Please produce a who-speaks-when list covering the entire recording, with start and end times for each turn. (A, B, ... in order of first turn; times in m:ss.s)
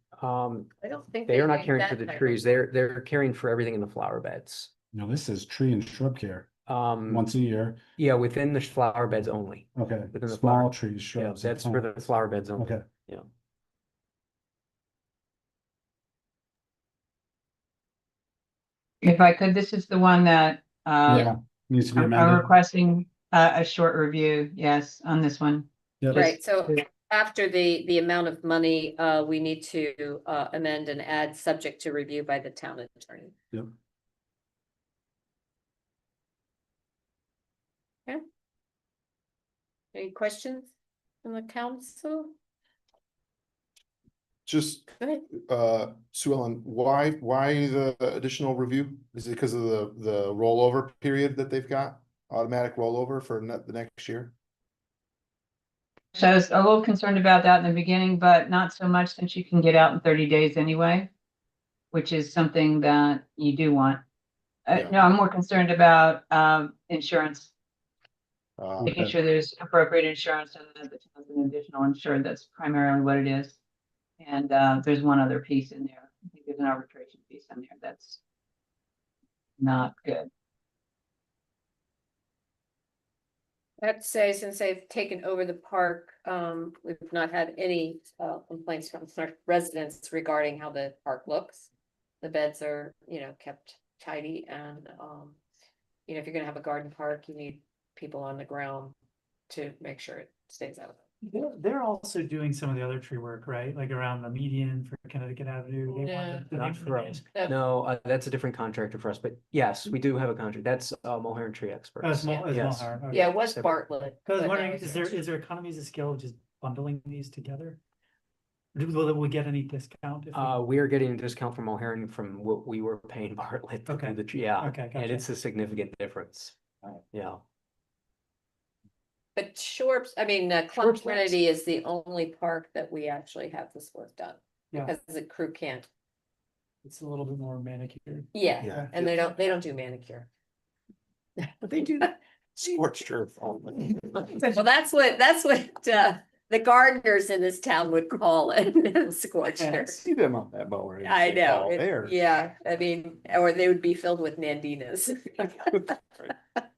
0:00.1-0:00.7 A
0:00.8-0:02.5 B
0:01.3-0:04.7 A
0:04.9-0:06.5 C
0:06.7-0:07.3 A
0:07.0-0:07.8 C
0:08.0-0:13.3 A
0:09.7-0:11.8 C
0:12.6-0:12.8 C
0:19.0-0:21.3 D
0:21.1-0:22.5 C
0:21.9-0:26.8 D
0:26.0-0:26.3 C
0:26.1-0:33.4 B
0:39.9-0:40.7 B
0:41.2-0:42.3 B
0:44.4-0:54.3 E
0:56.1-1:01.1 D
1:01.9-1:04.0 D
1:04.6-1:07.5 D
1:08.6-1:08.9 E
1:08.8-1:09.1 C
1:08.8-1:13.6 D
1:14.2-1:18.2 D
1:19.6-1:20.3 D
1:23.8-1:31.7 B
1:32.2-1:35.4 B
1:36.1-1:38.9 B
1:39.5-1:41.0 B
1:41.2-1:47.2 F
1:45.9-1:46.5 B
1:46.5-1:53.8 A
1:47.3-1:47.6 B
1:52.0-1:53.4 F
1:53.1-1:55.2 B
1:54.2-1:57.8 F
1:58.7-2:00.5 F
2:00.3-2:06.6 A
2:03.8-2:05.2 F
2:07.1-2:07.4 A
2:09.4-2:15.9 B
2:10.8-2:11.2 A
2:16.8-2:19.0 F
2:18.3-2:20.3 B
2:18.6-2:19.2 E
2:21.6-2:24.4 E
2:24.5-2:30.0 B
2:29.9-2:32.2 E
2:31.0-2:36.2 B